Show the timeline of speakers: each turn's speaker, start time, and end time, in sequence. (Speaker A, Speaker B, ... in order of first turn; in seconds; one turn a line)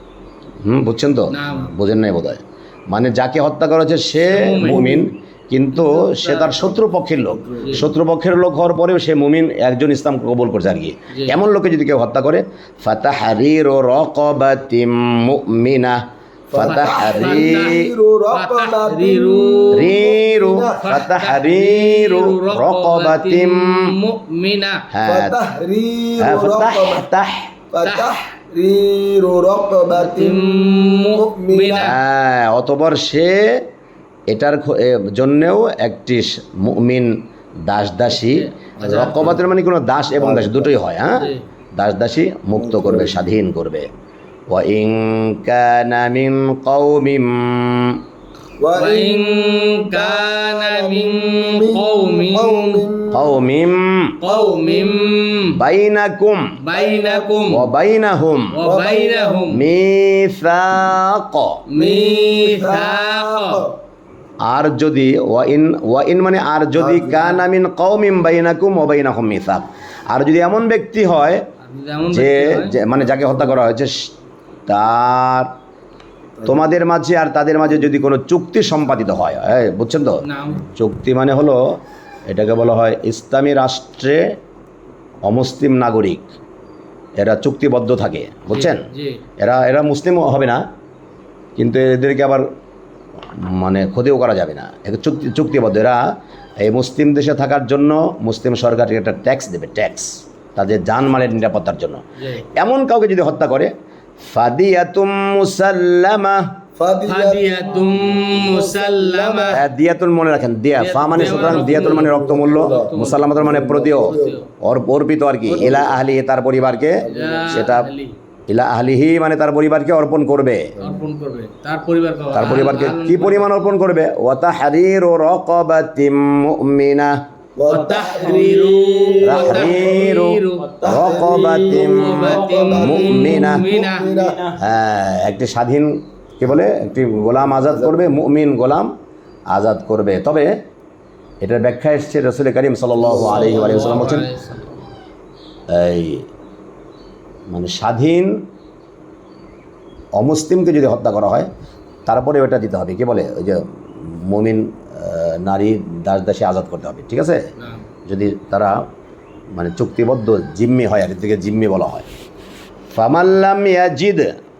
Speaker A: 0.6-16.0
Speaker B: 1.3-1.7
Speaker B: 4.2-5.1
Speaker B: 5.7-6.8
Speaker C: 7.3-7.9
Speaker B: 7.6-7.9
Speaker B: 11.1-11.4
Speaker C: 16.5-20.9
Speaker A: 16.5-17.7
Speaker B: 16.6-19.9
Speaker A: 19.7-23.8
Speaker B: 20.7-24.9
Speaker A: 24.9-25.4
Speaker C: 25.0-27.1
Speaker A: 26.2-27.5
Speaker C: 27.7-31.9
Speaker B: 27.8-28.2
Speaker B: 29.9-31.9
Speaker A: 31.8-33.4
Speaker A: 34.3-37.1
Speaker A: 37.7-43.9
Speaker B: 38.1-39.4
Speaker C: 38.8-39.4
Speaker C: 40.2-40.8
Speaker B: 41.1-41.4
Speaker C: 42.6-43.3
Speaker A: 44.5-47.9
Speaker C: 48.6-53.5
Speaker B: 48.7-52.9
Speaker A: 53.1-54.1
Speaker B: 54.2-55.6
Speaker C: 54.2-55.1
Speaker A: 55.5-56.4
Speaker B: 56.6-57.6
Speaker C: 56.7-57.5
Speaker A: 57.5-58.6
Speaker B: 58.5-59.6
Speaker C: 58.6-59.5
Speaker A: 59.5-61.6
Speaker B: 61.7-63.6
Speaker C: 61.8-63.8
Speaker A: 64.5-71.5
Speaker C: 66.8-67.5
Speaker B: 71.6-72.8
Speaker A: 72.1-74.1
Speaker A: 74.7-75.5
Speaker A: 76.5-81.6
Speaker B: 80.2-80.7
Speaker A: 82.3-84.2
Speaker A: 85.3-86.3
Speaker A: 87.2-88.9
Speaker B: 88.5-89.2
Speaker A: 89.4-90.6
Speaker A: 91.6-92.4
Speaker A: 93.3-96.0
Speaker A: 96.6-103.7
Speaker B: 102.2-102.5
Speaker A: 104.3-106.5
Speaker C: 106.8-109.6
Speaker B: 107.0-109.6
Speaker A: 109.5-117.9
Speaker B: 110.8-114.5
Speaker C: 111.2-114.4
Speaker B: 115.5-115.9
Speaker C: 115.6-116.0
Speaker C: 117.0-117.7
Speaker B: 117.1-118.1
Speaker A: 118.5-120.7
Speaker C: 120.8-121.1
Speaker B: 120.8-123.7
Speaker A: 122.3-127.1
Speaker C: 127.6-130.2
Speaker B: 127.7-130.8
Speaker A: 129.2-133.7
Speaker C: 130.8-134.5
Speaker B: 131.5-134.1
Speaker A: 134.6-138.9
Speaker C: 137.4-138.2
Speaker A: 139.5-140.5
Speaker A: 141.4-144.3
Speaker C: 143.0-144.2
Speaker B: 143.2-144.8
Speaker A: 145.7-146.2
Speaker A: 147.5-148.4
Speaker A: 150.2-151.5
Speaker A: 152.1-157.4
Speaker B: 157.6-157.9
Speaker A: 158.1-158.8
Speaker A: 159.6-162.1
Speaker A: 162.9-164.3